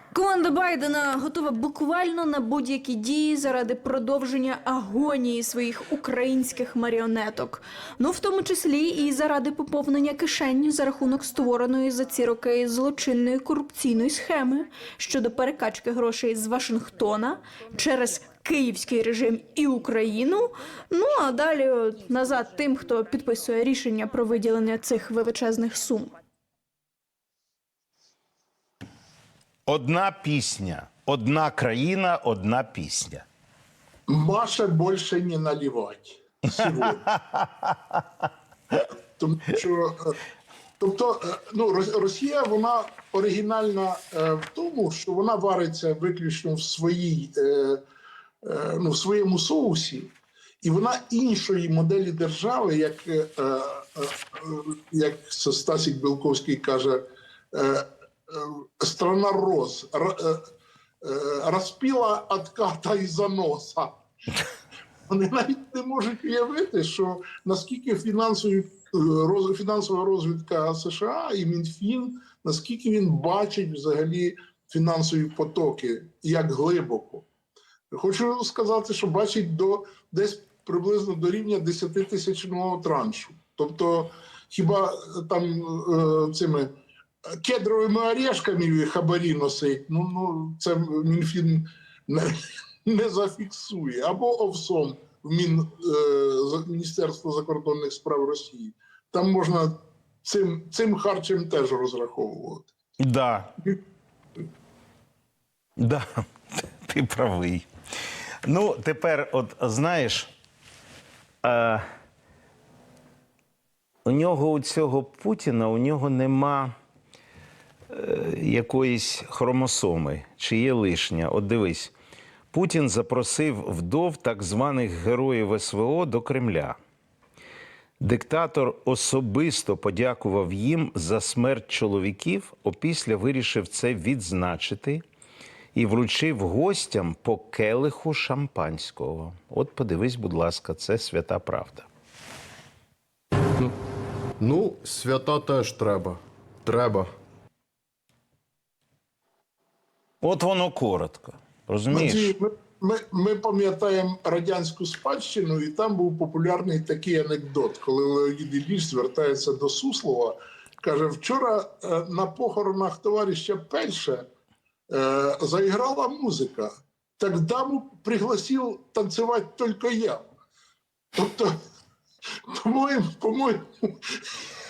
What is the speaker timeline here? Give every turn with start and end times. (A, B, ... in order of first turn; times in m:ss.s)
0:00.1-0:26.1 A
0:29.7-0:33.2 B
0:34.1-0:37.0 C
0:37.1-0:37.5 B
0:39.2-0:40.2 C
0:40.8-0:47.8 C
0:48.4-1:00.4 C
1:01.0-1:03.9 C
1:05.1-1:17.3 C
1:17.9-1:26.7 C
1:27.3-1:42.7 C
1:43.0-1:43.5 B
1:45.8-1:46.1 B
1:46.6-1:47.7 B
1:48.4-1:50.3 B
1:51.4-1:51.8 B
1:54.1-1:56.7 B
1:57.9-2:01.9 B
2:02.5-2:06.8 B
2:08.0-2:15.0 B
2:15.8-2:21.9 B
2:24.4-2:27.1 D
2:30.2-2:32.3 B
2:31.9-2:44.3 C
2:44.9-2:50.2 C
2:51.2-2:51.5 C
2:52.5-2:54.3 C